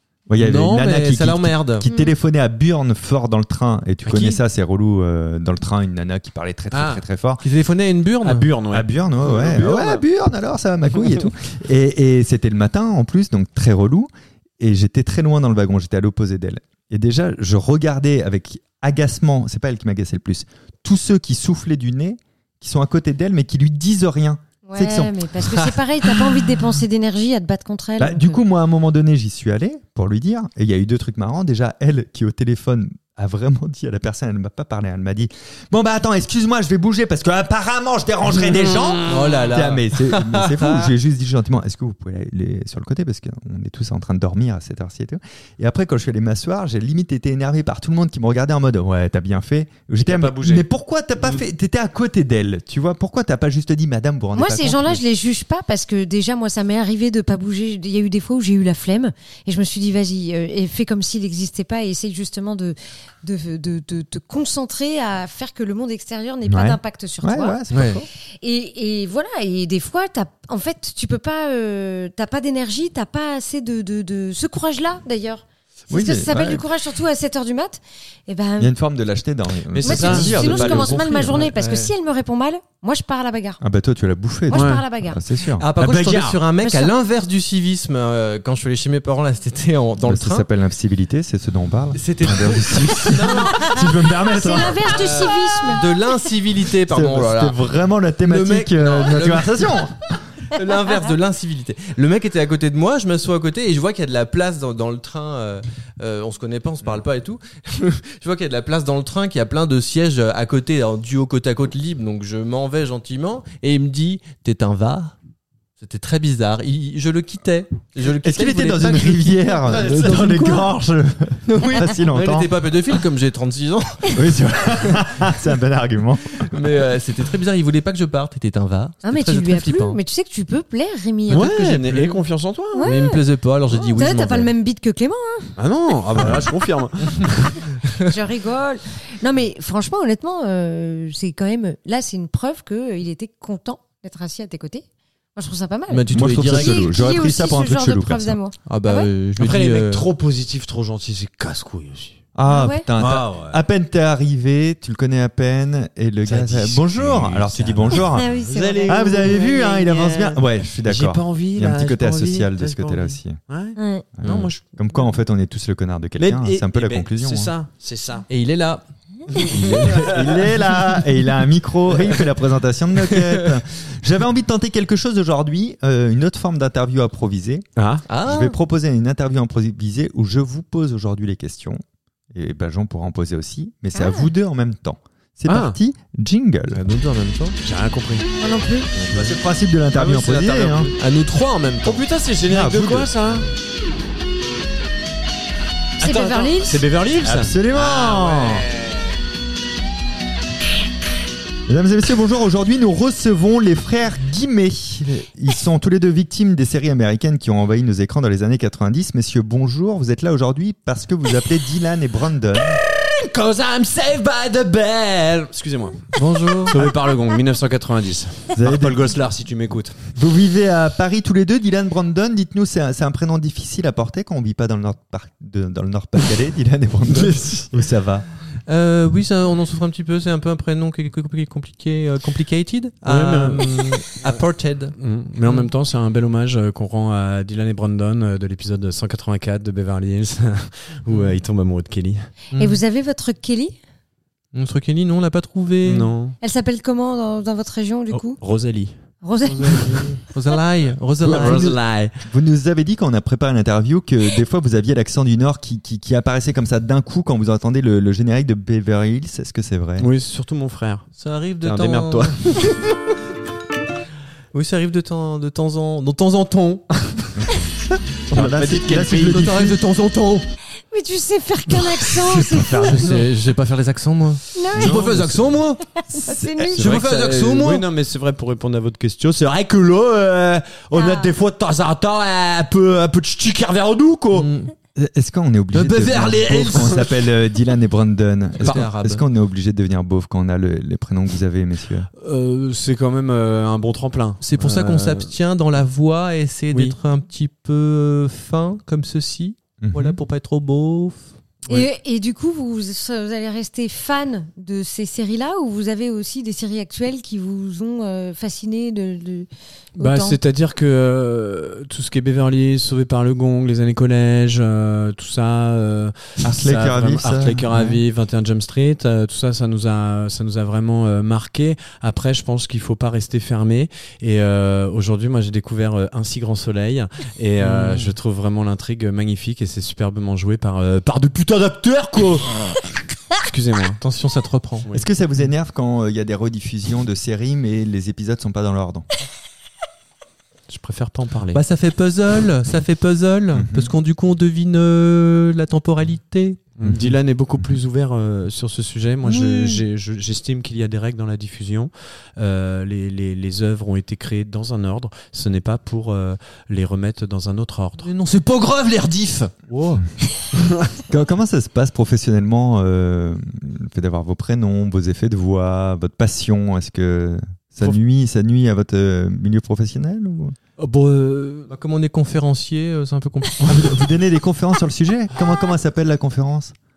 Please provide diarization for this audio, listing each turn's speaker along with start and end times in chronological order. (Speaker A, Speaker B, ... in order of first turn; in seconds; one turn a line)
Speaker A: 0.3-7.4
Speaker B: 0.4-1.9
Speaker C: 1.8-2.1
Speaker D: 4.0-4.4
Speaker D: 6.7-7.0
Speaker B: 7.4-8.5
Speaker D: 8.2-10.0
Speaker A: 8.7-25.3
Speaker C: 24.7-28.4
Speaker B: 25.4-26.2
Speaker A: 28.0-55.0
Speaker D: 38.5-39.4
Speaker B: 39.1-40.9
Speaker D: 50.0-50.6
Speaker C: 54.3-67.6
Speaker A: 66.5-68.0
Speaker B: 67.7-68.0
Speaker C: 68.4-78.7
Speaker A: 75.9-76.7
Speaker A: 78.6-81.3
Speaker D: 79.7-81.4
Speaker C: 79.8-83.6
Speaker B: 81.2-81.9
Speaker A: 83.6-86.3
Speaker C: 84.5-85.2
Speaker D: 84.5-84.8
Speaker B: 85.5-90.5
Speaker D: 85.8-86.4
Speaker C: 86.6-86.9
Speaker A: 90.0-95.1
Speaker B: 91.9-93.9
Speaker C: 93.6-95.8
Speaker B: 94.8-97.6
Speaker A: 96.9-100.0
Speaker B: 98.3-99.8
Speaker B: 100.5-115.1
Speaker B: 115.8-120.7
Speaker A: 118.2-122.5
Speaker D: 120.0-120.2
Speaker B: 121.5-124.3
Speaker A: 124.1-126.4
Speaker B: 126.3-130.0
Speaker C: 129.0-131.8
Speaker D: 131.3-132.9
Speaker B: 131.6-132.2
Speaker C: 132.7-133.2
Speaker B: 132.8-134.5
Speaker C: 133.7-135.6
Speaker D: 135.6-137.6
Speaker C: 138.0-149.1
Speaker B: 145.9-146.9
Speaker A: 146.1-148.4
Speaker B: 148.7-150.1
Speaker D: 149.4-152.2
Speaker A: 152.3-163.4
Speaker C: 152.4-152.9
Speaker D: 153.0-153.6
Speaker D: 156.2-165.0
Speaker C: 157.9-159.2
Speaker C: 163.8-164.0
Speaker A: 164.1-167.5
Speaker D: 166.2-168.2
Speaker B: 168.3-170.6
Speaker D: 169.4-170.2
Speaker A: 169.5-181.8
Speaker D: 177.8-178.1
Speaker B: 178.1-178.6
Speaker A: 182.3-186.8
Speaker C: 183.9-184.3
Speaker D: 185.5-185.8
Speaker B: 186.7-187.6
Speaker D: 187.6-188.3
Speaker C: 188.4-188.9
Speaker D: 188.9-189.3
Speaker A: 189.0-190.9
Speaker D: 189.9-190.9
Speaker B: 191.0-192.0
Speaker D: 191.8-193.5
Speaker A: 192.5-193.1
Speaker D: 196.0-199.1
Speaker C: 196.0-196.8
Speaker A: 197.2-198.7
Speaker A: 201.7-212.8
Speaker D: 212.8-220.0
Speaker B: 216.1-216.8
Speaker A: 218.5-219.1
Speaker A: 220.1-228.2
Speaker D: 227.1-227.4
Speaker B: 228.7-235.7
Speaker D: 233.0-234.2
Speaker D: 235.0-242.3
Speaker B: 242.5-242.8
Speaker C: 242.5-243.8
Speaker B: 244.5-246.1
Speaker D: 245.8-246.4
Speaker C: 246.4-248.4
Speaker D: 248.1-249.0
Speaker C: 249.2-250.0
Speaker D: 249.5-250.2
Speaker B: 249.7-251.8
Speaker D: 251.2-252.2
Speaker A: 251.2-260.1
Speaker D: 260.0-261.1
Speaker B: 261.2-262.4
Speaker D: 261.6-262.9
Speaker B: 264.5-266.9
Speaker D: 268.3-269.4
Speaker A: 268.3-269.8
Speaker B: 269.1-270.5
Speaker C: 270.9-273.0
Speaker A: 272.2-273.2
Speaker B: 272.6-275.8
Speaker C: 274.6-275.0
Speaker A: 274.8-275.6
Speaker C: 276.0-277.0
Speaker A: 276.1-276.7
Speaker B: 276.7-277.9
Speaker D: 276.8-284.5
Speaker C: 280.9-281.3
Speaker B: 284.3-284.7
Speaker A: 284.9-292.1
Speaker B: 285.7-287.1
Speaker D: 286.5-286.9
Speaker B: 288.6-289.2
Speaker D: 288.6-288.9
Speaker D: 292.2-295.3
Speaker B: 294.4-301.3
Speaker D: 296.7-297.0
Speaker A: 299.8-300.2
Speaker C: 301.7-310.4
Speaker D: 310.0-332.6
Speaker A: 316.4-318.0
Speaker B: 327.6-328.1
Speaker D: 333.4-334.0
Speaker B: 334.0-334.9
Speaker A: 334.9-339.1
Speaker D: 340.7-341.6
Speaker B: 341.5-346.6
Speaker A: 343.5-343.9
Speaker D: 346.8-358.1
Speaker A: 346.8-347.6
Speaker B: 349.2-349.8
Speaker B: 358.0-359.5
Speaker D: 359.7-360.0
Speaker D: 360.6-360.9
Speaker A: 361.1-370.5
Speaker D: 370.8-371.7
Speaker B: 371.6-374.1
Speaker A: 373.6-376.7